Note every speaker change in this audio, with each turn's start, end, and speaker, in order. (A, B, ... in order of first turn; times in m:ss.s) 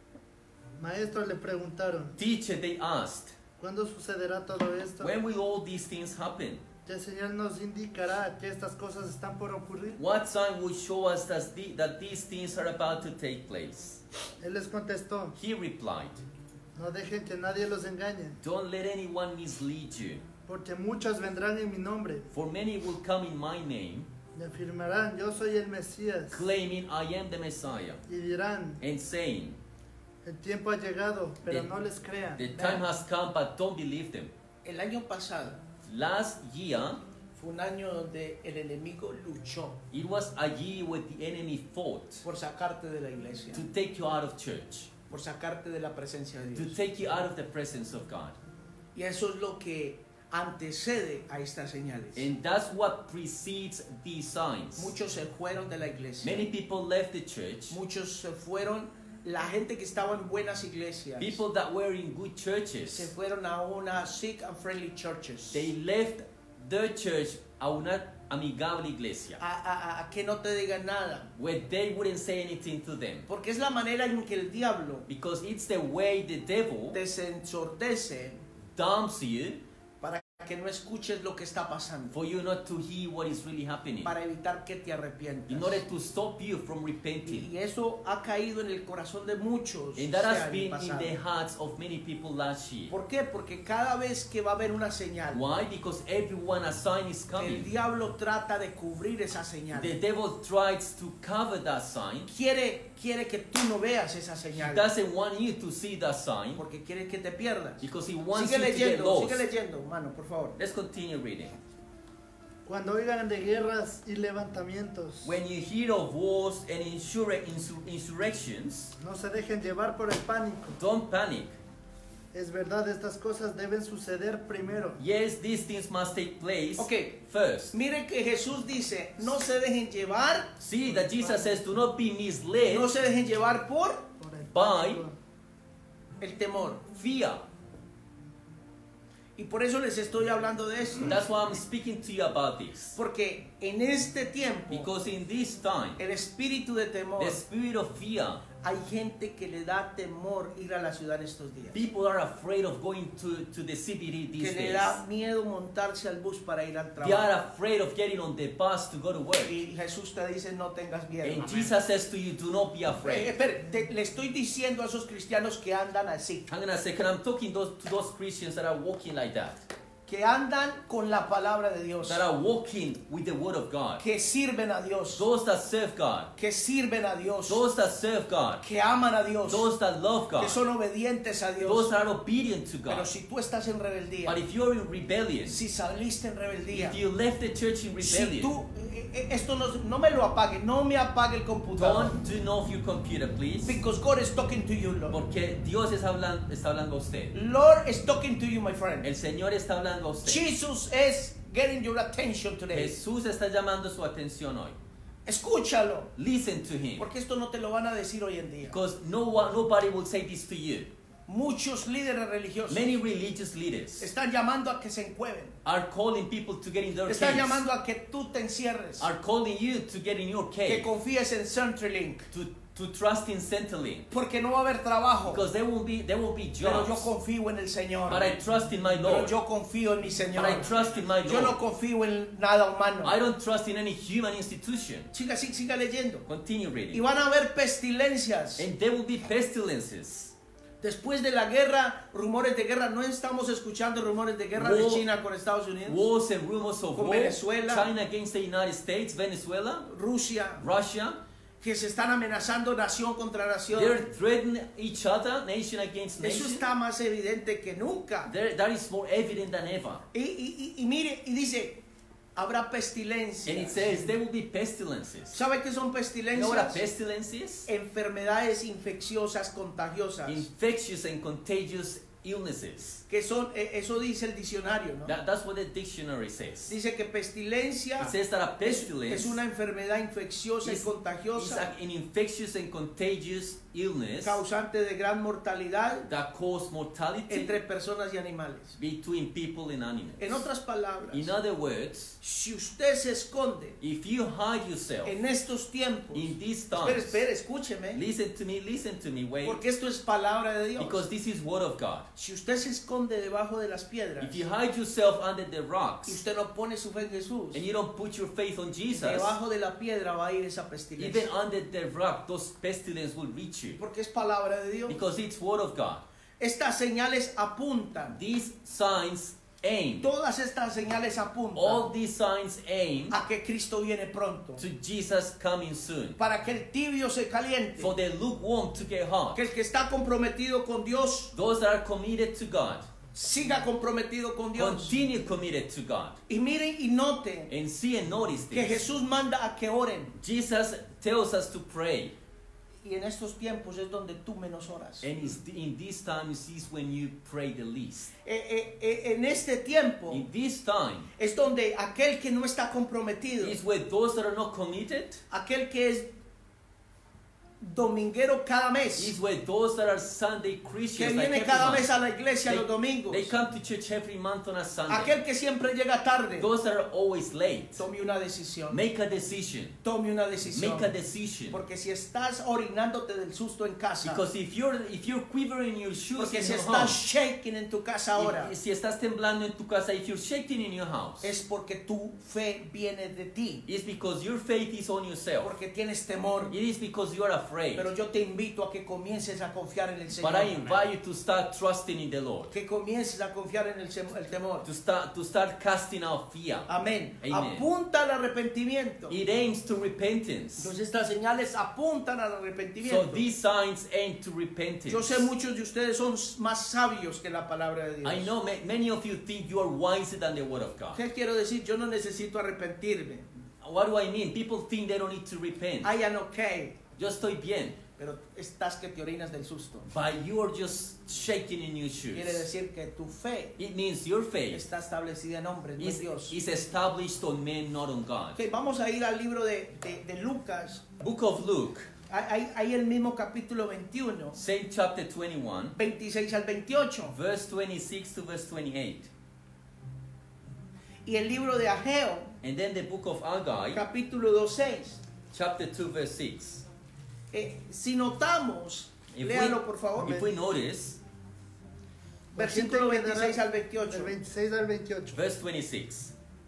0:00.8-0:02.2 A
0:02.2-0:03.4 B
0:03.6-0:05.1 A
0:05.0-0:06.6 B
0:06.9-0:10.0 A
0:10.0-0:14.0 B
0:14.4-0:15.4 A
0:15.4-0:16.2 B
0:16.8-0:18.4 A
0:18.4-0:20.2 B
0:20.4-0:22.3 A
0:22.3-0:24.1 B
0:24.4-0:26.4 A
0:26.3-0:28.0 B
0:28.1-0:28.8 A
0:28.8-0:29.6 B
0:30.2-0:32.5 A
0:32.4-0:34.3 B
0:32.6-0:32.8 C
0:34.6-0:35.6 C
0:35.9-0:37.0 B
0:37.4-0:39.8 C
0:39.9-0:42.2 B
0:42.2-0:43.6 C
0:43.5-0:44.9 B
0:45.1-0:46.8 C
0:46.6-0:48.4 B
0:48.9-0:52.3 C
0:52.1-0:54.9 B
0:54.8-0:56.5 C
0:56.2-0:57.8 B
0:57.7-1:01.4 C
1:01.2-1:03.1 B
1:02.9-1:05.7 C
1:05.5-1:09.4 B
1:09.4-1:11.3 C
1:11.4-1:13.3 B
1:13.3-1:15.1 C
1:15.1-1:17.0 B
1:16.9-1:18.4 C
1:18.8-1:19.6 B
1:20.0-1:22.2 C
1:22.1-1:24.1 B
1:24.0-1:25.8 C
1:25.5-1:27.5 B
1:27.3-1:31.1 C
1:30.0-1:32.9 B
1:32.9-1:35.4 C
1:35.3-1:37.7 B
1:37.4-1:39.9 C
1:39.7-1:42.3 B
1:42.3-1:44.8 C
1:44.6-1:46.6 B
1:46.6-1:50.6 C
1:47.8-1:49.4 B
1:50.6-1:51.6 B
1:52.6-1:55.4 A
1:55.2-1:58.9 B
1:59.0-2:00.8 A
2:00.8-2:01.6 B
2:02.3-2:05.0 A
2:05.0-2:07.7 B
2:06.8-2:07.2 C
2:07.7-2:10.5 C
2:10.6-2:12.9 B
2:10.9-2:11.6 A
2:12.7-2:14.1 C
2:14.2-2:15.2 A
2:14.5-2:15.0 B
2:16.2-2:16.8 C
2:16.9-2:17.4 B
2:19.4-2:21.2 C
2:21.0-2:23.0 B
2:23.0-2:24.9 C
2:24.7-2:26.0 B
2:26.0-2:27.4 C
2:27.2-2:28.4 B
2:28.6-2:31.8 C
2:31.7-2:35.0 B
2:34.4-2:37.3 C
2:37.0-2:39.6 B
2:39.4-2:41.6 C
2:41.2-2:43.4 B
2:43.0-2:46.4 C
2:46.5-2:49.6 B
2:50.1-2:52.2 C
2:52.0-2:54.0 B
2:54.0-2:55.2 C
2:55.1-2:56.3 B
2:56.4-2:57.6 C
2:57.5-2:58.6 B
2:58.6-2:59.7 C
2:59.4-3:00.6 B
3:00.4-3:01.9 C
3:01.6-3:03.1 B
3:02.9-3:04.4 C
3:04.3-3:05.6 B
3:05.5-3:07.0 C
3:06.7-3:08.5 B
3:08.0-3:12.1 C
3:11.8-3:13.8 B
3:13.6-3:15.2 C
3:15.1-3:17.4 B
3:17.3-3:19.1 C
3:19.0-3:20.4 B
3:20.2-3:22.9 C
3:22.7-3:24.8 B
3:25.3-3:26.1 C
3:26.2-3:27.1 B
3:27.0-3:28.8 C
3:28.7-3:30.9 B
3:31.3-3:32.9 C
3:32.7-3:34.1 B
3:34.0-3:35.6 C
3:35.6-3:37.6 B
3:37.1-3:39.1 C
3:39.0-3:40.9 B
3:40.7-3:42.3 C
3:42.3-3:44.1 B
3:44.1-3:45.4 C
3:45.3-3:47.1 B
3:46.6-3:48.4 C
3:48.1-3:49.3 B
3:49.0-3:53.1 C
3:50.4-3:51.6 B
3:53.0-3:55.1 B
3:55.1-3:56.2 C
3:56.3-3:57.0 B
3:56.9-3:58.6 C
3:58.6-4:00.3 B
4:00.8-4:06.0 C
4:04.6-4:05.1 B
4:05.9-4:09.9 B
4:07.0-4:07.9 C
4:09.9-4:10.6 C
4:10.6-4:11.2 B
4:11.6-4:14.0 C
4:13.7-4:16.6 B
4:16.2-4:18.3 C
4:18.3-4:20.0 B
4:20.1-4:21.8 C
4:22.4-4:24.1 C
4:23.4-4:25.4 B
4:25.3-4:26.8 C
4:26.3-4:27.7 B
4:27.6-4:30.4 C
4:30.3-4:33.0 B
4:33.1-4:35.1 C
4:35.1-4:36.8 B
4:36.7-4:41.7 C
4:38.0-4:39.4 B
4:40.6-4:44.4 B
4:44.2-4:46.1 C
4:46.1-4:47.6 B
4:47.3-4:48.8 C
4:48.8-4:50.4 B
4:50.2-4:51.3 C
4:51.1-4:52.2 B
4:52.2-4:53.8 C
4:53.8-4:55.2 B
4:55.0-4:58.0 C
4:56.1-4:57.2 B
4:57.9-4:59.6 B
4:59.4-5:01.0 C
5:00.8-5:02.1 B
5:02.2-5:04.4 C
5:04.2-5:06.2 B
5:06.1-5:07.6 C
5:07.5-5:09.4 B
5:08.9-5:11.3 C
5:11.0-5:13.8 B
5:13.8-5:15.0 C
5:14.9-5:16.0 B
5:16.4-5:18.2 C
5:18.1-5:20.1 B
5:20.0-5:21.9 C
5:21.6-5:23.2 B
5:23.1-5:24.6 C
5:24.6-5:26.2 B
5:26.2-5:27.9 C
5:27.8-5:29.4 B
5:29.4-5:31.3 C
5:31.3-5:32.9 B
5:33.1-5:35.0 C
5:34.6-5:36.2 B
5:36.3-5:37.5 C
5:37.5-5:38.8 B
5:38.5-5:40.1 C
5:40.2-5:42.1 B
5:42.8-5:45.1 C
5:45.0-5:48.1 B
5:48.2-5:50.3 C
5:50.1-5:51.1 B
5:51.2-5:53.6 C
5:53.4-5:55.2 B
5:55.3-5:56.1 C
5:57.6-5:59.1 C
5:59.0-6:01.9 B
6:00.9-6:03.3 C
6:02.4-6:05.2 B
6:04.9-6:06.5 C
6:06.4-6:07.8 B
6:07.8-6:08.8 C
6:08.7-6:09.8 B
6:09.8-6:10.9 C
6:10.5-6:11.6 B
6:11.5-6:14.2 C
6:14.0-6:17.0 B
6:16.2-6:18.5 C
6:18.1-6:21.3 B
6:21.2-6:23.6 C
6:23.6-6:25.5 B
6:25.4-6:26.5 C
6:26.5-6:27.9 B
6:27.8-6:30.6 C
6:30.2-6:32.5 B
6:32.5-6:34.6 C
6:34.6-6:36.7 B
6:36.7-6:39.2 C
6:37.2-6:37.7 B
6:39.1-6:40.7 B
6:40.6-6:43.2 C
6:42.8-6:45.3 B
6:44.9-6:48.3 C
6:48.0-6:51.0 B
6:50.9-6:53.3 C
6:53.6-6:55.9 B
6:55.8-6:56.8 C
6:57.0-6:57.8 B
6:58.0-6:59.9 C
6:59.9-7:02.4 B
7:02.1-7:03.6 C
7:03.6-7:04.6 B
7:04.5-7:06.4 C
7:05.8-7:08.4 B
7:08.4-7:10.9 C
7:11.0-7:11.9 B
7:12.1-7:14.4 C
7:14.4-7:15.8 B
7:15.8-7:17.1 C
7:17.1-7:19.1 B
7:21.1-7:22.3 C
7:22.4-7:23.8 B
7:23.7-7:25.0 C
7:25.3-7:26.6 B
7:27.3-7:30.2 C
7:29.1-7:31.0 B
7:30.0-7:30.3 A
7:32.3-7:35.2 A
7:32.4-7:34.2 C
7:35.1-7:36.1 B